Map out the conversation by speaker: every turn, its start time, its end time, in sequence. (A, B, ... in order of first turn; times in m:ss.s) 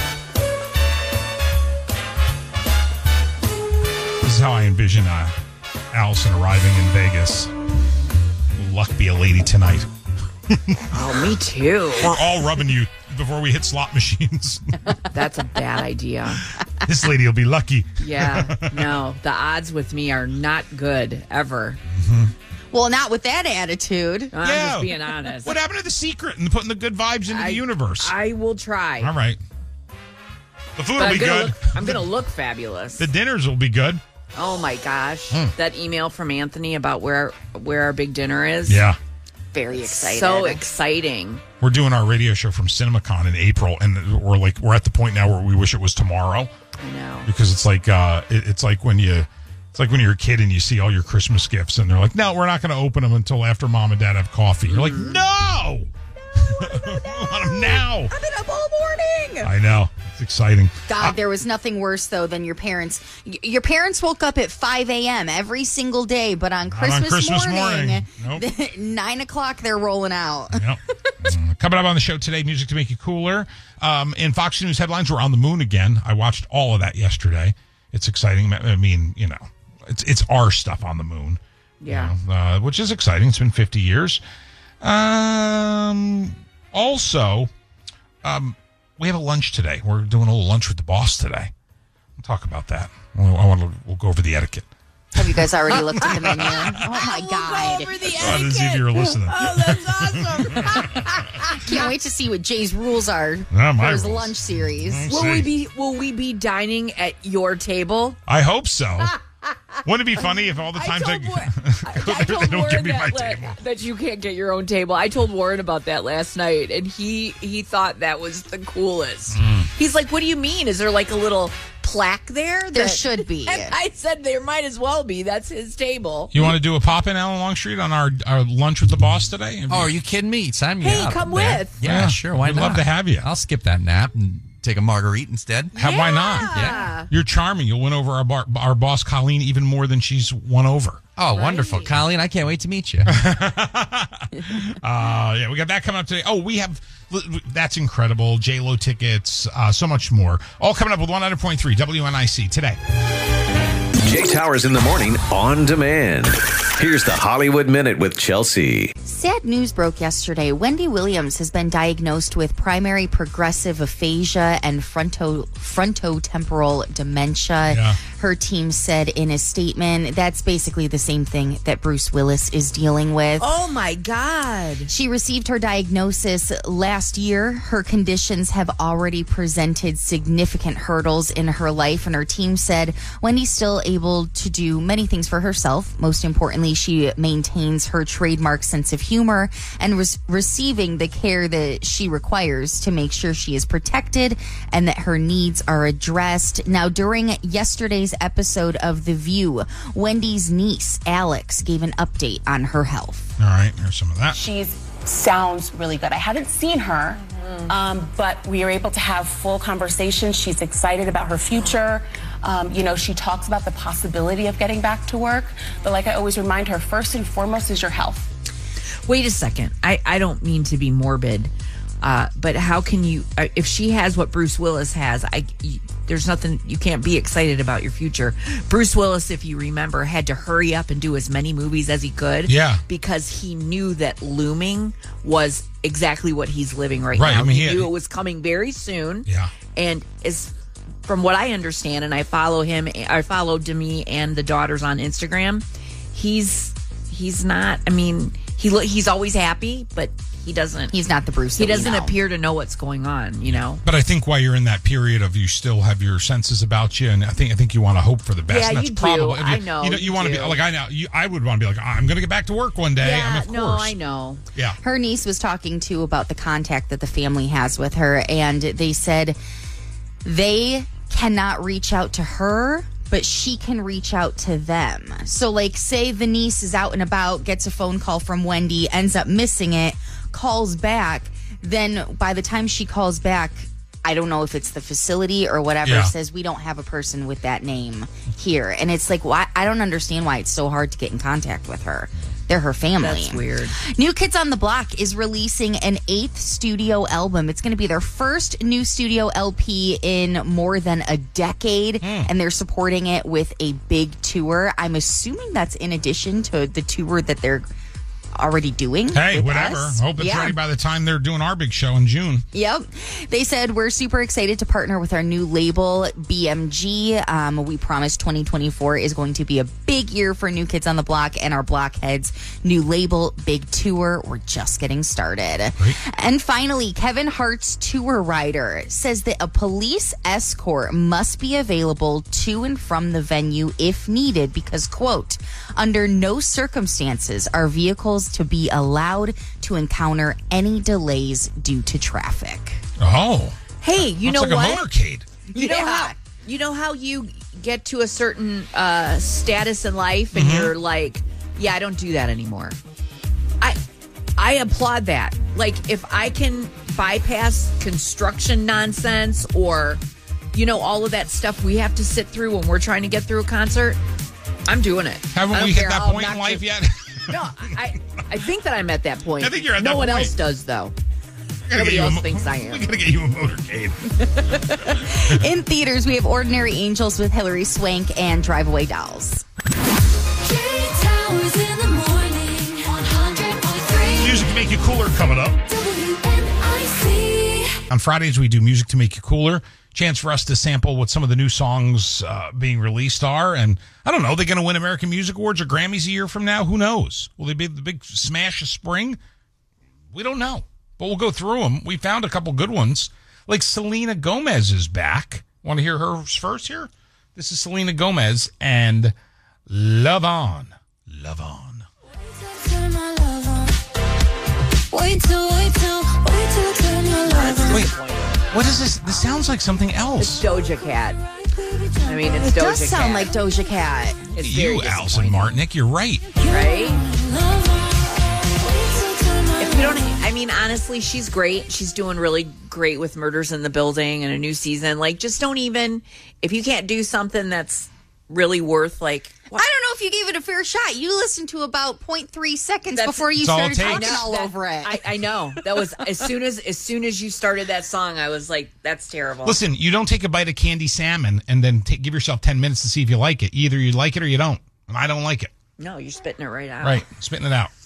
0:04.2-0:05.3 A
0:05.9-0:07.5 A
0:08.6-0:09.9 A
0:10.5-0:10.8 A
0:10.9-0:12.1 B
0:12.0-0:14.9 A
0:15.1-0:16.4 B
0:16.8-0:19.0 A
0:18.0-0:21.8 B
0:21.9-0:22.3 A
0:22.7-0:24.3 C
0:24.3-0:25.5 B
0:24.4-0:28.1 A
0:27.3-0:29.1 B
0:29.0-0:29.4 A
0:30.8-0:32.0 A
0:31.0-0:33.0 B
0:33.0-0:34.0 A
0:34.3-0:38.8 B
0:38.6-0:39.0 A
0:39.5-0:40.6 C
0:39.7-0:41.4 B
0:41.6-0:46.5 A
0:46.8-0:47.3 B
0:47.2-0:58.1 A
0:54.7-0:55.2 B
0:56.8-0:59.5 C
0:59.4-1:01.1 A
1:00.9-1:10.6 C
1:06.7-1:08.4 A
1:10.5-1:24.2 A
1:21.8-1:22.1 B
1:24.8-1:27.5 A
1:28.2-1:31.5 A
1:32.2-1:34.7 A
1:35.1-1:37.9 C
1:35.7-1:41.8 B
1:36.0-1:36.8 A
1:38.1-1:40.9 A
1:41.0-1:45.1 C
1:43.5-1:45.5 A
1:45.1-1:48.2 B
1:48.3-1:49.1 A
1:49.4-2:06.5 B
1:49.8-1:53.6 A
1:59.3-1:59.7 A
2:02.7-2:03.8 C
2:06.3-2:10.0 A
2:09.7-2:15.7 D
2:10.8-2:11.8 B
2:11.8-2:13.2 A
2:15.7-2:17.1 B
2:15.7-2:21.0 A
2:16.5-2:16.9 D
2:21.2-2:23.1 D
2:21.3-2:21.9 B
2:23.1-2:32.8 A
2:34.0-2:38.9 E
2:39.0-2:53.4 C
2:47.6-2:48.0 A
2:53.4-2:54.9 B
2:54.9-3:23.3 C
3:23.4-3:24.4 A
3:24.3-3:38.3 F
3:39.0-3:41.5 B
3:42.0-4:00.5 B
3:52.5-3:52.8 A
3:57.1-3:57.9 A
3:59.2-3:59.5 A
4:01.0-4:10.9 B
4:10.9-4:12.2 C
4:11.6-4:13.8 B
4:13.5-4:23.9 A
4:18.5-4:20.6 B
4:23.0-4:24.4 B
4:24.8-4:29.4 C
4:30.2-5:07.7 C
4:45.8-4:46.1 A
4:53.0-4:53.8 B
5:02.0-5:02.3 A
5:08.3-5:10.6 C
5:09.1-5:12.4 A
5:12.5-5:42.8 C
5:43.0-5:45.3 A
5:43.8-5:44.8 B
5:45.5-5:46.2 C
5:45.5-5:52.8 B
5:50.3-5:50.7 A
5:54.4-6:00.0 B
6:00.5-6:04.0 B
6:04.7-6:06.6 B
6:05.3-6:07.3 A
6:07.3-6:10.9 B
6:09.4-6:10.3 A
6:11.7-6:14.1 A
6:11.7-6:12.8 B
6:15.0-6:19.4 C
6:15.1-6:15.4 A
6:20.4-6:24.5 G
6:24.1-6:25.6 A
6:25.7-6:27.8 G
6:27.9-6:39.2 A
6:40.1-6:49.1 A
6:49.7-6:51.8 A
6:52.2-6:53.8 G
6:54.9-6:57.8 G
6:57.2-6:58.4 B
6:58.5-7:00.4 A
7:00.2-7:01.2 B
7:02.0-7:03.3 B
7:02.4-7:04.3 C
7:04.3-7:05.6 B
7:04.4-7:06.3 A
7:06.4-7:10.0 G
7:06.5-7:07.0 B
7:09.6-7:19.6 B
7:19.5-7:25.0 C
7:22.9-7:29.6 B
7:23.4-7:24.2 A
7:29.4-7:35.5 A
7:35.8-7:37.0 B
7:36.8-7:37.7 A